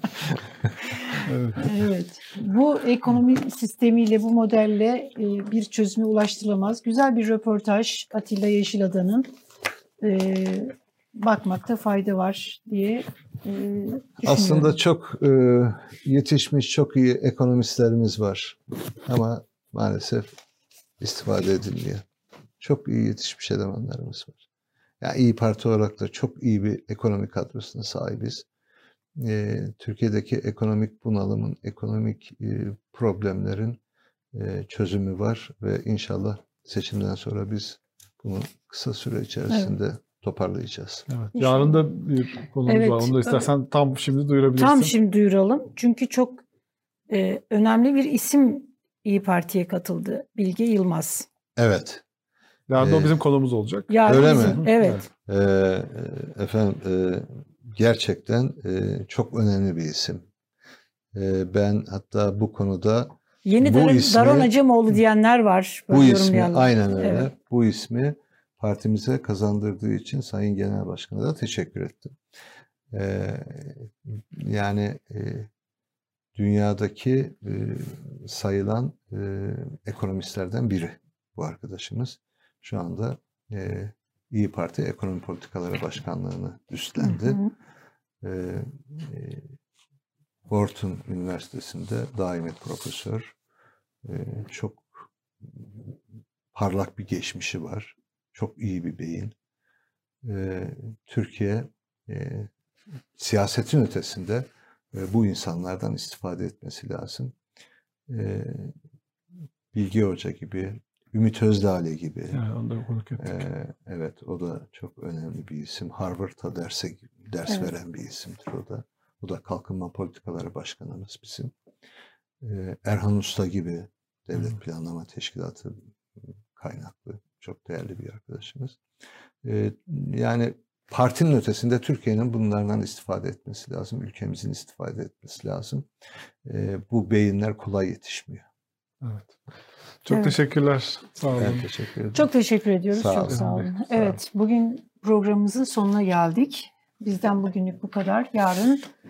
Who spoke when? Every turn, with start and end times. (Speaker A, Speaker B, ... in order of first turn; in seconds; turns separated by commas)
Speaker A: 1.3-1.7, Speaker B: 1.6-9.3, Speaker B: 10.0-14.8, Speaker C: 14.2-20.3, Speaker C: 21.0-22.0, Speaker C: 22.6-24.4, Speaker C: 25.0-28.5, Speaker C: 29.2-33.8, Speaker C: 34.3-41.1, Speaker A: 41.1-44.9, Speaker B: 41.4-41.8, Speaker B: 42.7-43.5, Speaker B: 44.6-46.4, Speaker B: 47.1-51.3, Speaker C: 51.6-52.0, Speaker A: 52.7-55.0, Speaker C: 52.8-53.1, Speaker B: 53.9-55.1, Speaker C: 54.1-54.6, Speaker C: 55.2-60.3, Speaker C: 61.1-64.5, Speaker B: 63.5-67.3, Speaker C: 65.9-72.2, Speaker C: 72.9-75.5, Speaker C: 76.3-87.4, Speaker B: 87.0-87.5, Speaker C: 88.2-89.5, Speaker C: 90.5-93.3, Speaker C: 94.0-94.9, Speaker C: 95.4-95.9, Speaker C: 96.5-99.3, Speaker C: 100.2-102.5, Speaker C: 103.2-107.3, Speaker C: 108.1-108.7, Speaker C: 109.7-112.4, Speaker A: 112.3-113.4, Speaker C: 113.2-121.5, Speaker C: 122.4-128.8, Speaker C: 129.4-135.9, Speaker C: 136.4-138.4, Speaker A: 139.0-139.4, Speaker A: 140.0-141.7, Speaker B: 140.1-140.4, Speaker C: 141.4-142.3, Speaker B: 142.1-148.9, Speaker C: 142.9-144.1